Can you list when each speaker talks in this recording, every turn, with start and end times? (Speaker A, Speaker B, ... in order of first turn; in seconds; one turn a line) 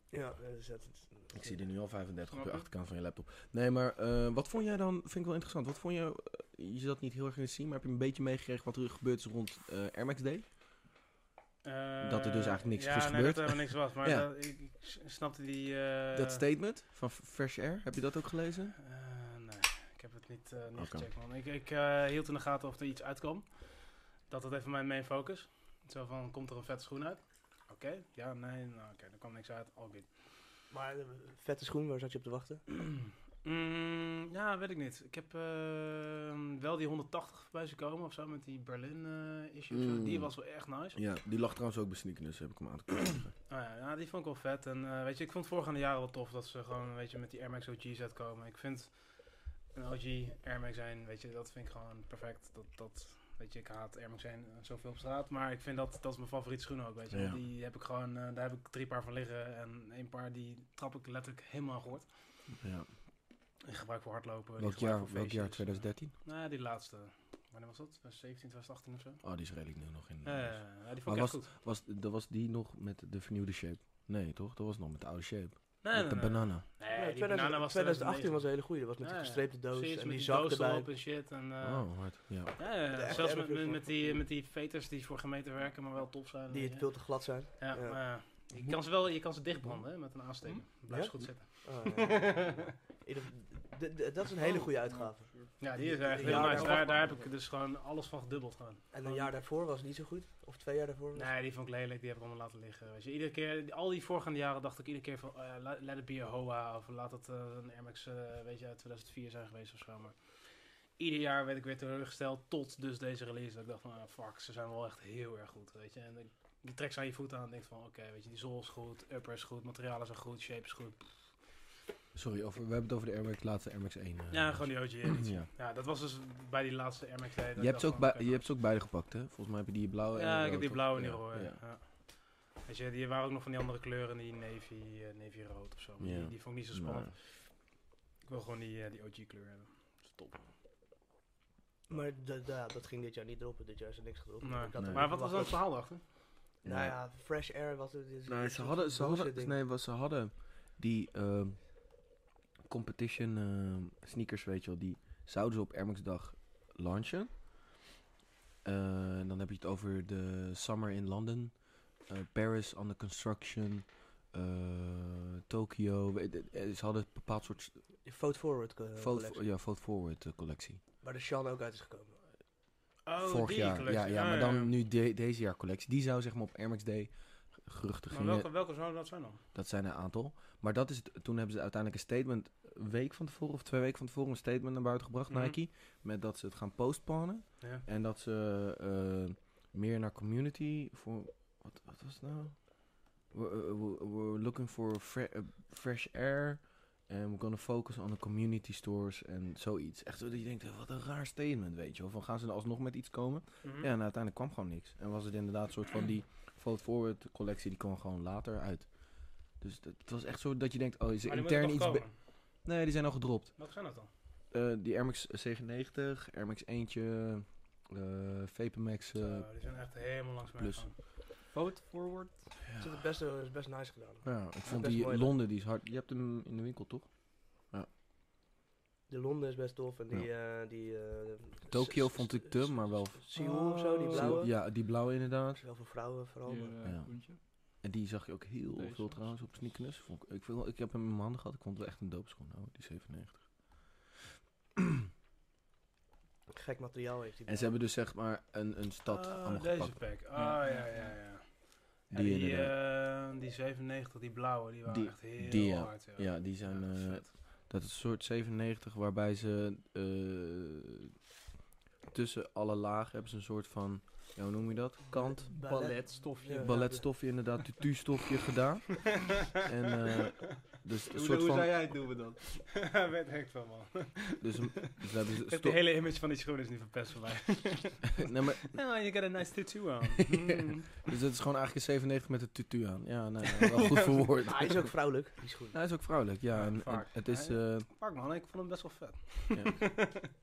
Speaker A: 0.1-1.6
Speaker B: 1.3-10.4
Speaker C: 2.3-2.7
Speaker C: 11.6-16.4
Speaker B: 12.0-14.3
Speaker B: 16.1-18.8
Speaker C: 18.8-30.1
Speaker B: 20.8-21.1
Speaker A: 30.7-32.6
Speaker C: 33.4-41.0
Speaker B: 39.7-40.3
Speaker B: 40.9-43.3
Speaker C: 43.5-62.1
Speaker B: 57.1-57.4
Speaker B: 62.6-62.9
Speaker C: 63.6-69.2
Speaker B: 64.6-66.1
Speaker B: 69.2-76.6
Speaker C: 70.2-71.5
Speaker C: 75.8-92.7
Speaker A: 76.9-80.9
Speaker B: 81.6-82.7
Speaker A: 82.9-84.2
Speaker A: 86.5-88.0
Speaker A: 90.9-97.1
Speaker D: 94.8-97.3
Speaker C: 95.6-99.3
Speaker A: 98.9-101.3
Speaker C: 101.2-110.2
Speaker C: 111.0-121.4
Speaker B: 122.1-125.5
Speaker C: 124.3-128.5
Speaker B: 127.6-131.6
Speaker C: 130.1-137.7
Speaker B: 136.0-137.1
Speaker C: 138.2-140.4
Speaker A: 141.9-145.6
Speaker C: 144.4-146.1
Speaker B: 144.8-145.2
Speaker B: 146.6-147.0
Speaker A: 146.6-149.6
Speaker B: 148.3-151.9
Speaker B: 152.7-157.3
Speaker B: 158.6-167.8
Speaker A: 168.1-169.4
Speaker B: 169.0-170.8
Speaker A: 171.0-172.2
Speaker C: 173.1-174.7
Speaker B: 173.2-178.5
Speaker C: 178.1-179.4
Speaker B: 179.5-213.7
Speaker C: 185.3-185.6
Speaker C: 203.6-203.9
Speaker C: 211.3-212.2
Speaker C: 213.6-214.1
Speaker B: 214.5-219.5
Speaker C: 219.2-221.0
Speaker B: 220.6-220.9
Speaker D: 221.5-222.5
Speaker B: 222.6-223.0
Speaker A: 222.8-225.3
Speaker B: 224.2-227.9
Speaker A: 229.1-234.6
Speaker B: 231.7-233.4
Speaker D: 233.4-234.5
Speaker B: 234.0-235.6
Speaker A: 235.6-236.7
Speaker D: 236.5-237.4
Speaker B: 236.8-243.9
Speaker D: 238.8-239.3
Speaker A: 246.5-247.8
Speaker B: 247.5-250.1
Speaker C: 249.1-257.3
Speaker D: 250.3-251.2
Speaker B: 252.1-252.8
Speaker B: 254.9-261.1
Speaker B: 262.1-265.5
Speaker A: 265.1-267.1
Speaker D: 265.5-266.9
Speaker B: 266.6-271.8
Speaker D: 271.1-272.4
Speaker C: 272.4-281.1
Speaker B: 274.4-275.8
Speaker B: 278.2-278.8
Speaker B: 281.0-284.9
Speaker C: 283.6-283.9
Speaker A: 284.5-285.8
Speaker B: 285.7-287.9
Speaker C: 286.5-290.3
Speaker B: 289.5-289.9